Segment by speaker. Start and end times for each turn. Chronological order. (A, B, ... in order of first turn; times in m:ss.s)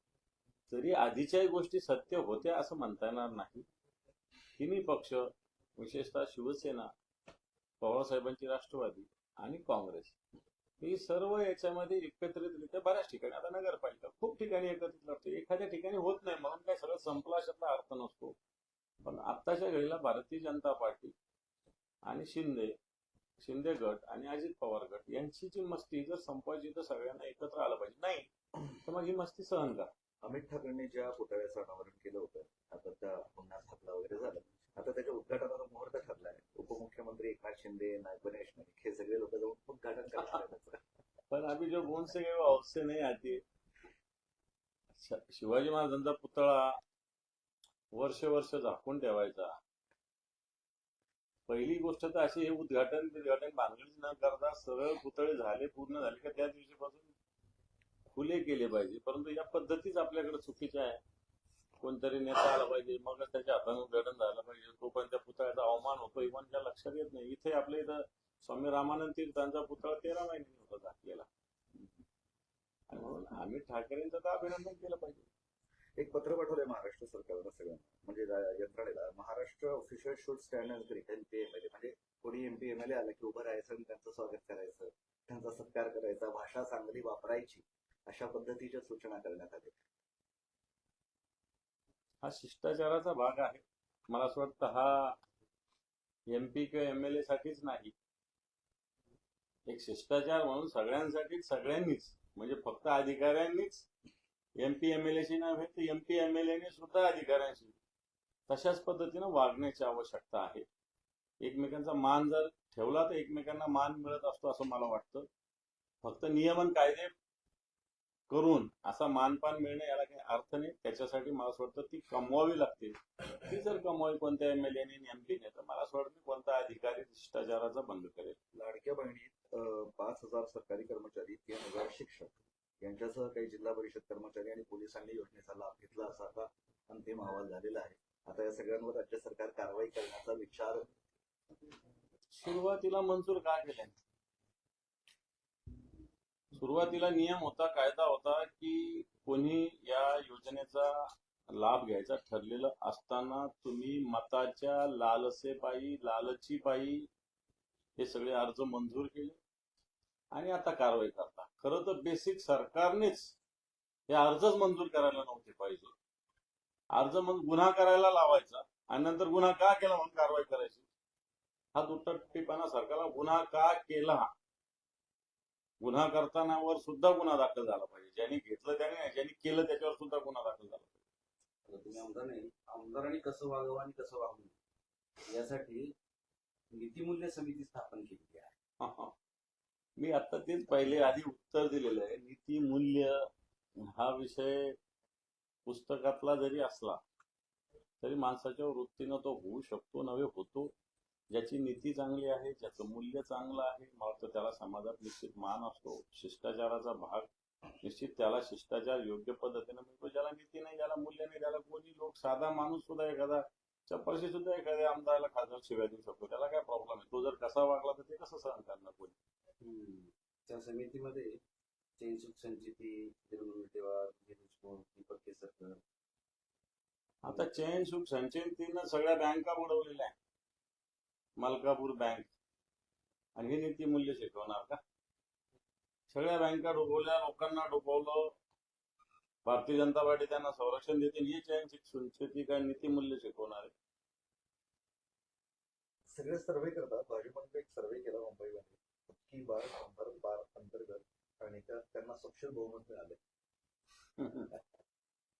0:00.7-0:03.6 A
0:04.6-0:06.9 A
0:07.8-0:10.2 A
0:10.8-0:18.4 A
0:19.0-0:21.1 A
0:22.1-0:22.7 A
0:23.4-0:29.9 A
0:30.2-0:40.8 B
0:41.3-0:43.4 A
0:45.0-0:46.8 A
0:47.9-0:49.5 A
0:51.5-0:57.1 A
0:58.1-1:01.0 A
1:01.8-1:11.3 A
1:12.9-1:15.2 A
1:16.0-1:29.7 B
1:32.2-1:35.2 A
1:36.3-1:37.9 A
1:39.7-1:43.9 A
1:44.6-1:47.8 A
1:48.5-1:50.6 A
1:51.4-1:55.3 A
1:56.0-1:57.1 A
1:58.3-2:08.4 A
2:08.5-2:20.9 B
2:22.4-2:24.0 A
2:26.5-2:37.1 A
2:38.0-2:39.4 A
2:40.3-2:43.4 A
2:44.1-2:45.9 A
2:46.9-2:50.8 A
2:51.8-2:54.3 A
2:55.8-3:01.0 A
3:01.7-3:04.5 C
3:05.3-3:05.9 C
3:06.7-3:08.5 C
3:08.8-3:09.1 A
3:10.0-3:13.2 A
3:13.8-3:14.8 A
3:15.6-3:17.0 A
3:18.0-3:20.7 A
3:21.3-3:27.3 A
3:27.8-3:39.1 A
3:39.6-3:41.4 C
3:42.0-3:45.8 C
3:47.2-3:50.1 A
3:51.4-3:52.3 A
3:53.4-3:54.8 A
3:56.1-3:58.3 A
3:59.4-4:03.7 A
4:06.1-4:13.2 B
4:14.2-4:14.5 A